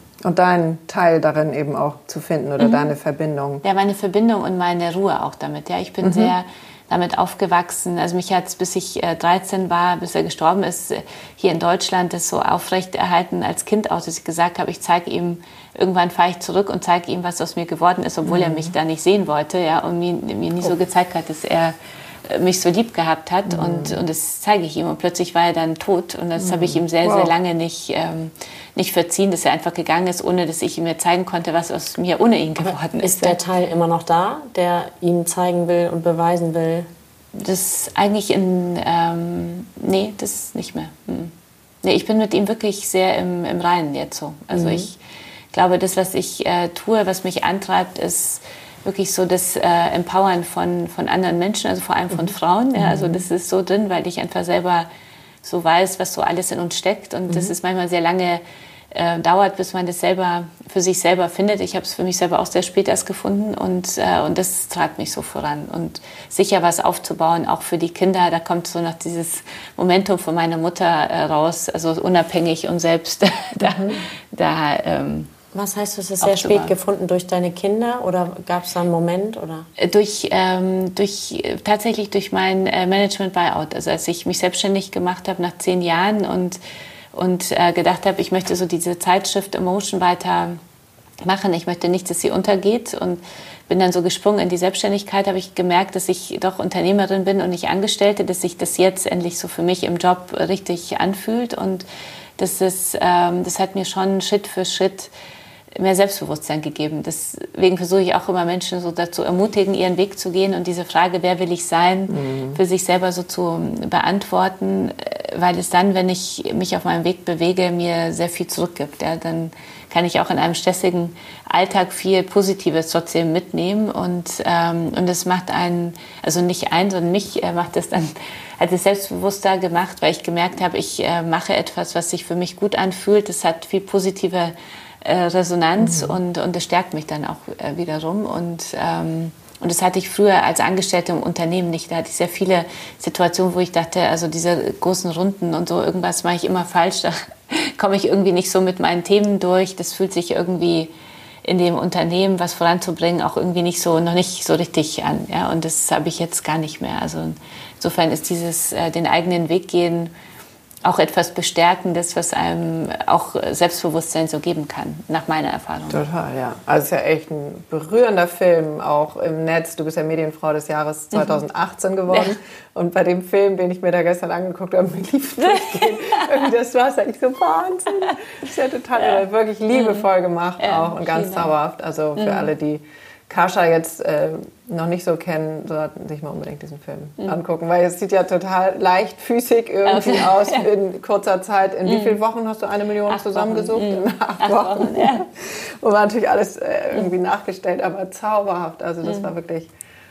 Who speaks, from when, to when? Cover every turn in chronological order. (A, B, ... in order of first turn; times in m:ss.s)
0:00.2-0:03.6 A
0:02.6-0:02.9 B
0:03.6-0:33.4 B
0:06.0-0:06.3 A
0:18.3-0:18.8 A
0:23.5-0:24.0 A
0:26.4-0:27.3 A
0:32.6-0:36.9 C
0:37.4-0:45.0 B
0:45.5-0:54.9 B
0:55.4-1:15.3 B
1:13.6-1:14.0 A
1:15.5-1:19.7 C
1:16.2-1:16.7 B
1:19.8-1:26.6 B
1:27.1-1:30.6 B
1:31.2-1:41.9 B
1:42.4-1:45.1 B
1:45.7-2:30.9 B
1:52.1-1:52.6 A
2:15.8-2:16.2 A
2:31.4-2:40.1 B
2:40.8-2:46.0 B
2:45.9-3:19.7 A
2:55.5-2:56.3 B
2:59.7-3:00.0 B
3:00.6-3:01.5 B
3:02.2-3:02.5 B
3:09.9-3:10.6 B
3:11.9-3:12.1 B
3:13.1-3:15.3 B